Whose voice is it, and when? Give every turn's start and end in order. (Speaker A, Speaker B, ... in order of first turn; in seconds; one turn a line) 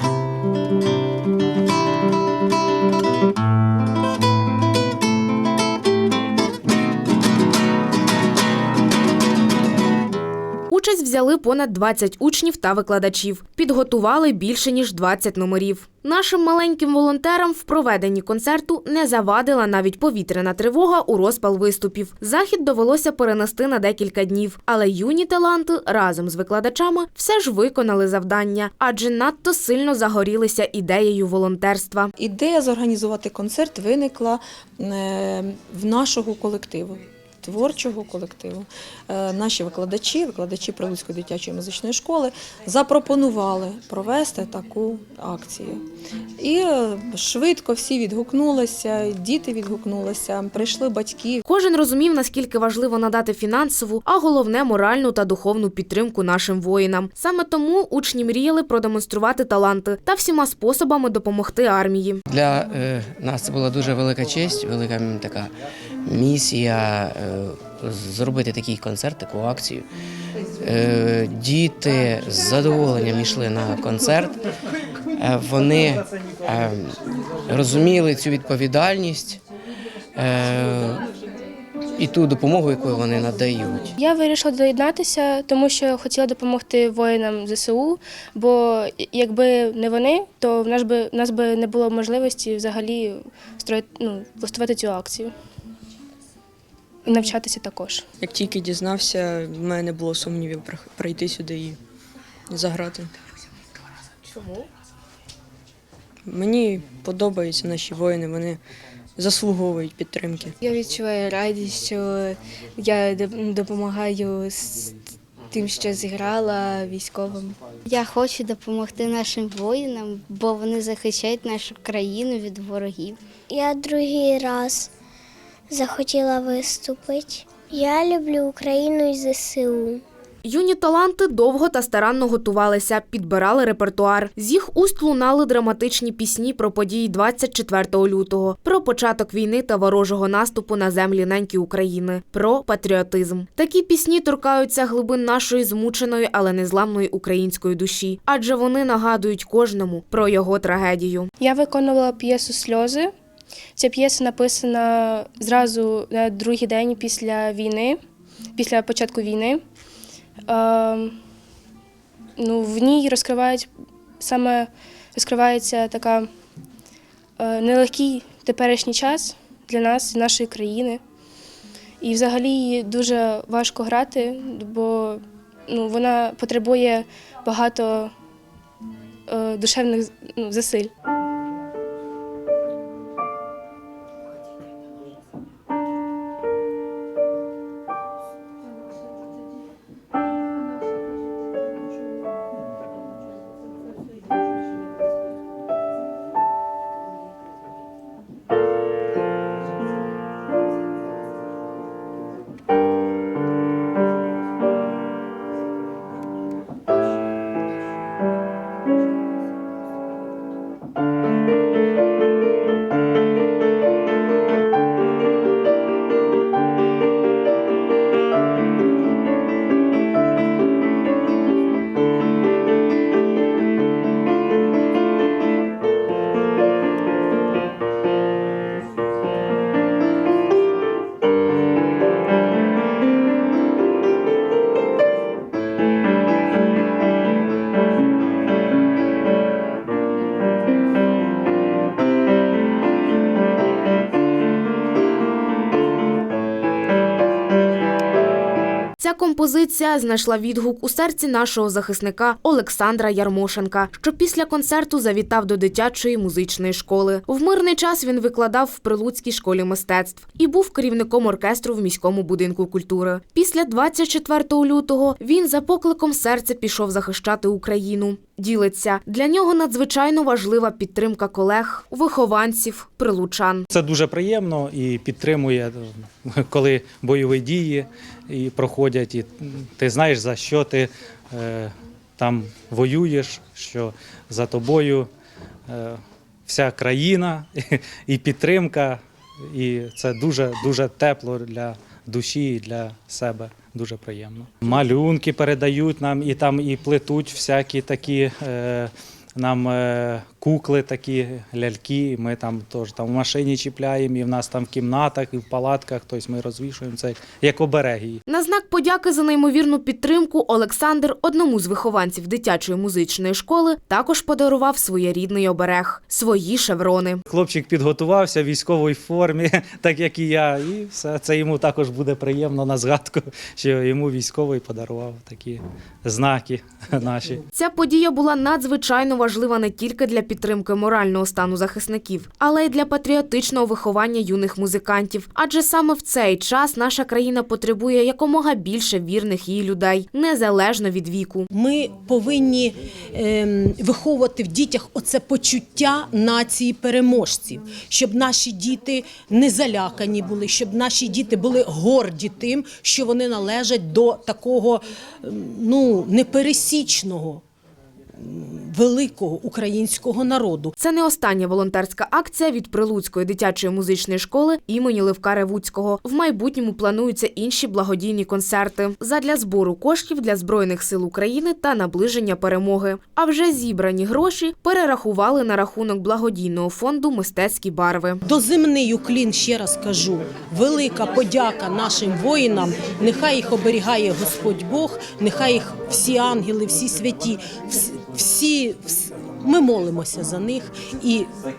Speaker A: 10.7-32.1
Speaker B: 32.2-45.8
Speaker B: 46.4-51.4
Speaker A: 51.5-62.2
Speaker C: 62.3-65.5
Speaker C: 66.0-69.9
Speaker C: 70.6-74.3
Speaker C: 75.2-76.9
Speaker C: 77.5-79.3
Speaker C: 80.2-81.0
Speaker C: 82.0-83.8
Speaker D: 84.0-95.3
Speaker D: 97.0-98.0
Speaker E: 98.2-101.8
Speaker E: 102.5-103.1
Speaker E: 106.2-108.6
Speaker E: 109.2-110.5
Speaker F: 110.6-117.6
Speaker G: 117.9-123.2
Speaker H: 123.5-124.9
Speaker H: 125.7-130.0
Speaker A: 130.4-151.3
Speaker D: 151.4-153.1
Speaker D: 153.8-158.0
Speaker D: 158.6-159.6
Speaker D: 160.5-161.2
Speaker D: 162.4-163.7
Speaker D: 164.2-166.3
Speaker D: 167.4-171.0
Speaker D: 172.0-178.1
Speaker D: 179.3-180.9
Speaker A: 249.0-273.7
Speaker I: 273.7-285.1
Speaker I: 285.7-308.2
Speaker A: 308.3-317.2
Speaker I: 317.3-327.4
Speaker A: 327.5-341.5
Speaker J: 341.5-357.4
Speaker J: 358.2-360.7
Speaker A: 360.8-378.2
Speaker J: 378.2-391.3